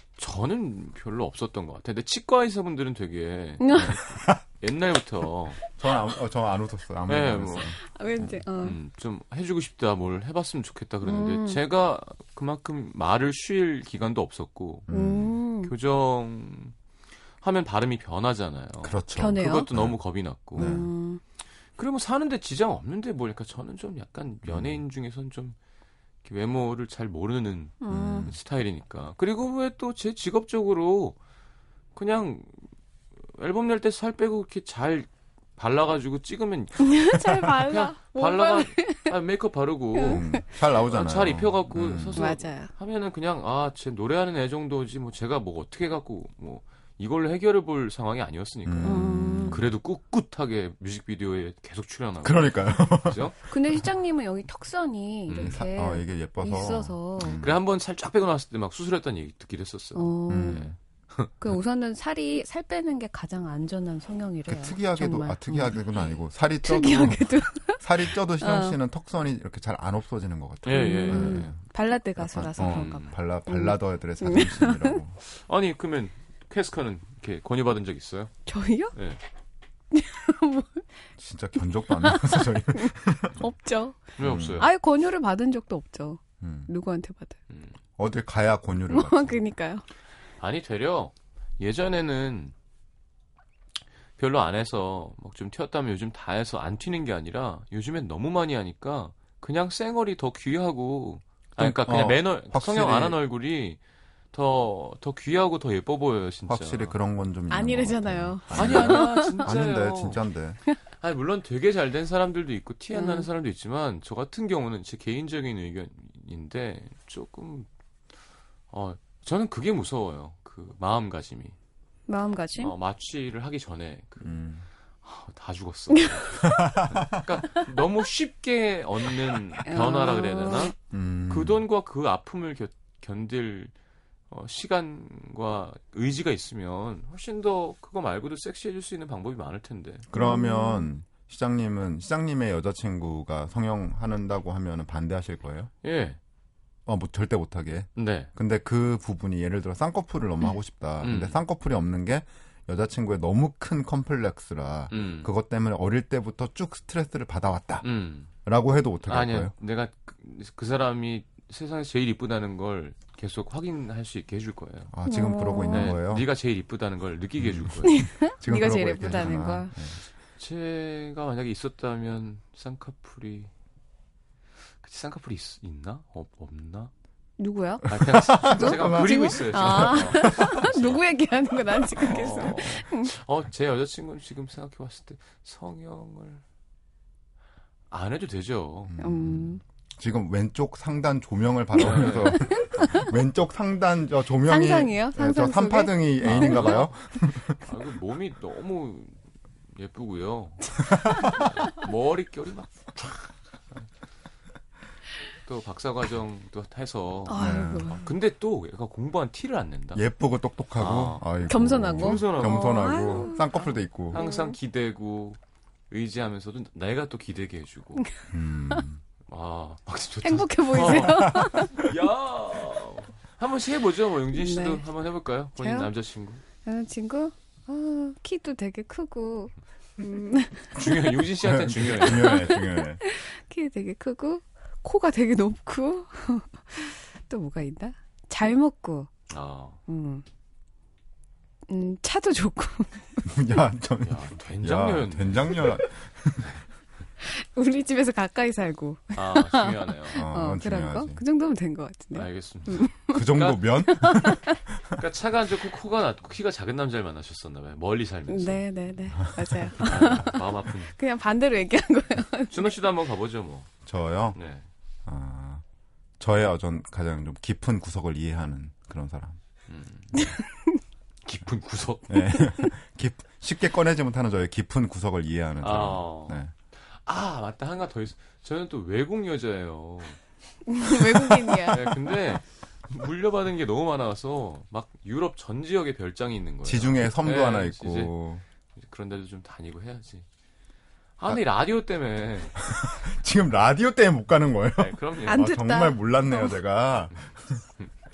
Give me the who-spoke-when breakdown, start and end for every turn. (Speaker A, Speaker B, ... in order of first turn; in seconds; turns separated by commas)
Speaker A: 0.2-5.6, Speaker B: 3.6-4.0, Speaker C: 3.8-4.4, Speaker C: 5.8-8.3, Speaker A: 7.1-7.7, Speaker B: 7.8-8.8, Speaker A: 8.6-14.9, Speaker B: 11.0-11.6, Speaker C: 14.9-15.3, Speaker B: 14.9-15.7, Speaker A: 15.6-16.7, Speaker A: 17.4-20.7, Speaker C: 18.8-19.9, Speaker B: 19.1-19.7, Speaker C: 20.5-20.9, Speaker B: 20.6-21.2, Speaker A: 21.8-25.6, Speaker C: 24.4-24.8, Speaker A: 26.2-31.1, Speaker B: 27.8-28.3, Speaker C: 27.9-28.4, Speaker A: 31.9-32.5, Speaker A: 33.3-53.4, Speaker B: 36.8-39.1, Speaker B: 40.0-40.4, Speaker C: 40.0-42.3, Speaker B: 42.1-42.7, Speaker C: 48.6-49.7, Speaker B: 48.8-49.6, Speaker C: 52.2-53.3, Speaker B: 53.5-57.4, Speaker A: 55.3-55.6, Speaker C: 55.4-57.6, Speaker A: 57.4-61.3, Speaker B: 59.9-60.7, Speaker C: 60.3-60.7, Speaker B: 61.4-65.7, Speaker C: 64.5-71.6, Speaker B: 66.6-67.8, Speaker B: 68.4-68.8, Speaker A: 70.6-71.5, Speaker B: 70.7-75.0, Speaker C: 72.2-75.2, Speaker A: 72.6-73.1, Speaker A: 75.2-78.3, Speaker B: 78.5-78.9, Speaker A: 78.9-79.2, Speaker B: 79.9-80.8, Speaker C: 81.2-83.4, Speaker B: 81.8-87.4, Speaker A: 84.2-84.7, Speaker C: 84.2-84.6, Speaker C: 86.4-86.7, Speaker C: 88.0-89.4, Speaker B: 88.9-89.8, Speaker A: 90.4-92.5, Speaker A: 94.2-103.8, Speaker C: 101.6-103.2, Speaker A: 104.3-106.9, Speaker C: 106.5-110.6, Speaker B: 107.5-109.5, Speaker A: 108.5-110.2, Speaker A: 111.0-117.7, Speaker B: 112.9-113.3, Speaker A: 118.7-121.5, Speaker B: 122.1-122.7, Speaker A: 122.6-124.3, Speaker C: 124.2-124.6, Speaker A: 125.0-130.7, Speaker C: 126.4-127.2, Speaker B: 129.6-130.7, Speaker C: 130.9-131.6, Speaker A: 131.3-133.7, Speaker A: 134.3-140.1, Speaker C: 140.1-145.7, Speaker B: 140.1-140.9, Speaker A: 145.8-146.2, Speaker C: 146.8-157.9, Speaker A: 147.9-148.3, Speaker A: 151.0-151.4, Speaker A: 154.9-155.3, Speaker A: 157.8-158.3, Speaker C: 158.4-159.5, Speaker A: 159.1-164.9, Speaker C: 164.9-166.3, Speaker B: 165.0-165.9, Speaker A: 165.7-167.9, Speaker C: 167.4-170.0, Speaker B: 167.8-169.7, Speaker A: 170.4-173.5, Speaker A: 174.8-176.9, Speaker B: 177.4-183.1, Speaker C: 177.9-180.7, Speaker A: 177.9-181.0, Speaker A: 181.9-186.4, Speaker A: 187.9-188.9, Speaker C: 188.9-197.6, Speaker B: 189.0-189.6, Speaker A: 191.8-192.4, Speaker B: 191.9-193.1, Speaker B: 194.5-196.8, Speaker A: 196.2-196.9, Speaker A: 197.6-199.2, Speaker A: 199.7-203.3, Speaker C: 200.9-201.3, Speaker A: 205.4-210.0, Speaker B: 207.3-208.0, Speaker C: 207.4-208.0, Speaker C: 209.9-214.2, Speaker A: 210.8-211.2, Speaker B: 211.5-213.4, Speaker A: 211.8-215.4, Speaker B: 214.1-214.5, Speaker A: 215.9-218.0, Speaker B: 217.9-218.8, Speaker C: 218.3-219.0, Speaker A: 219.3-226.4, Speaker B: 220.2-221.8, Speaker C: 220.8-221.9, Speaker B: 224.3-224.8, Speaker B: 225.6-225.9, Speaker B: 226.6-231.1, Speaker A: 230.8-232.5, Speaker C: 231.4-233.0, Speaker B: 232.0-239.1, Speaker A: 239.3-239.8, Speaker B: 239.9-240.2, Speaker B: 241.7-243.3, Speaker C: 243.2-246.5, Speaker A: 244.0-245.6, Speaker B: 247.2-253.2, Speaker A: 249.2-250.2, Speaker C: 250.1-251.2, Speaker A: 252.1-253.7, Speaker C: 253.1-255.0, Speaker B: 253.8-254.6, Speaker A: 255.0-258.6, Speaker B: 258.3-262.7, Speaker C: 259.2-259.7, Speaker A: 259.8-260.9, Speaker A: 262.5-263.7, Speaker C: 263.9-264.4, Speaker A: 264.3-264.6, Speaker C: 265.1-265.6, Speaker C: 266.2-269.4, Speaker A: 269.7-270.3, Speaker B: 270.2-270.7, Speaker A: 271.2-272.2, Speaker C: 272.1-276.5, Speaker A: 275.6-276.4, Speaker A: 276.9-280.2, Speaker B: 280.7-282.0, Speaker A: 280.9-288.1, Speaker C: 286.6-288.4, Speaker A: 288.8-290.2, Speaker A: 291.2-292.5, Speaker C: 292.6-297.6, Speaker A: 294.8-295.4, Speaker B: 295.2-296.5